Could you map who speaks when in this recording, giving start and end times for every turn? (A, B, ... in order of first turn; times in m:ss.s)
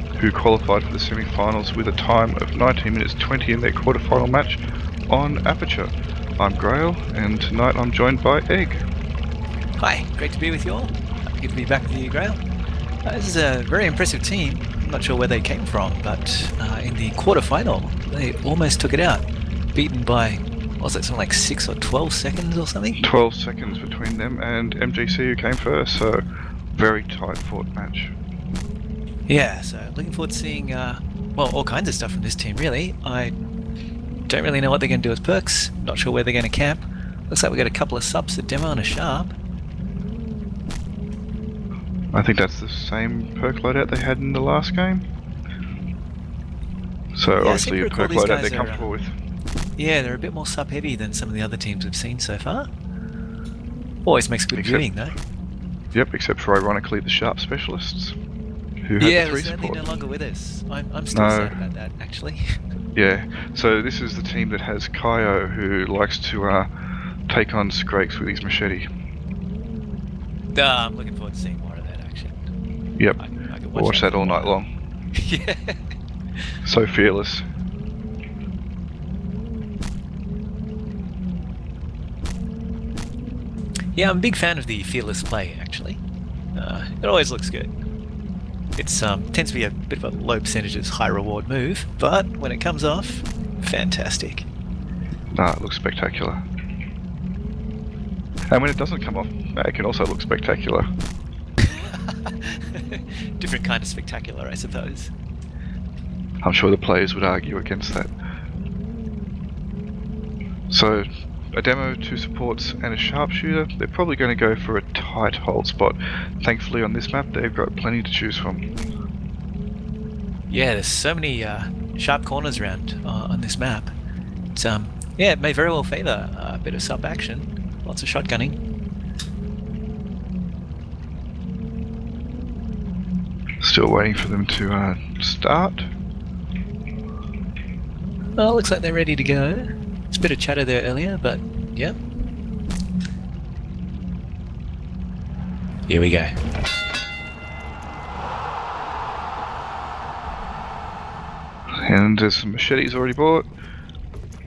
0:00.2-0:08.8 A
0:09.8-0:12.4 B
0:13.0-0:23.0 B
0:23.0-0:28.1 A
0:29.3-0:33.3 B
0:34.3-0:39.3 B
0:42.1-0:45.0 A
0:47.1-0:49.1 A
0:47.4-0:48.9 B
0:49.8-0:52.7 B
0:54.0-0:55.2 B
0:54.5-0:54.8 A
0:55.9-0:58.2 A
0:58.8-0:59.8 A
0:59.0-1:02.6 B
1:01.1-1:01.6 A
1:02.9-1:06.7 A
1:07.3-1:08.9 A
1:10.5-1:12.4 B
1:13.2-1:14.5 B
1:13.7-1:14.7 A
1:15.1-1:15.8 B
1:16.6-1:17.4 A
1:23.9-1:26.0 B
1:26.5-1:27.7 B
1:28.8-1:34.4 B
1:35.3-1:36.4 A
1:38.5-1:40.9 A
1:41.6-1:45.1 B
1:46.4-1:48.1 A
1:50.7-1:58.6 A
2:00.5-2:03.9 B
2:04.5-2:08.6 B
2:13.6-2:15.9 A
2:18.4-2:22.0 B
2:25.9-2:26.3 B
2:31.7-2:33.4 A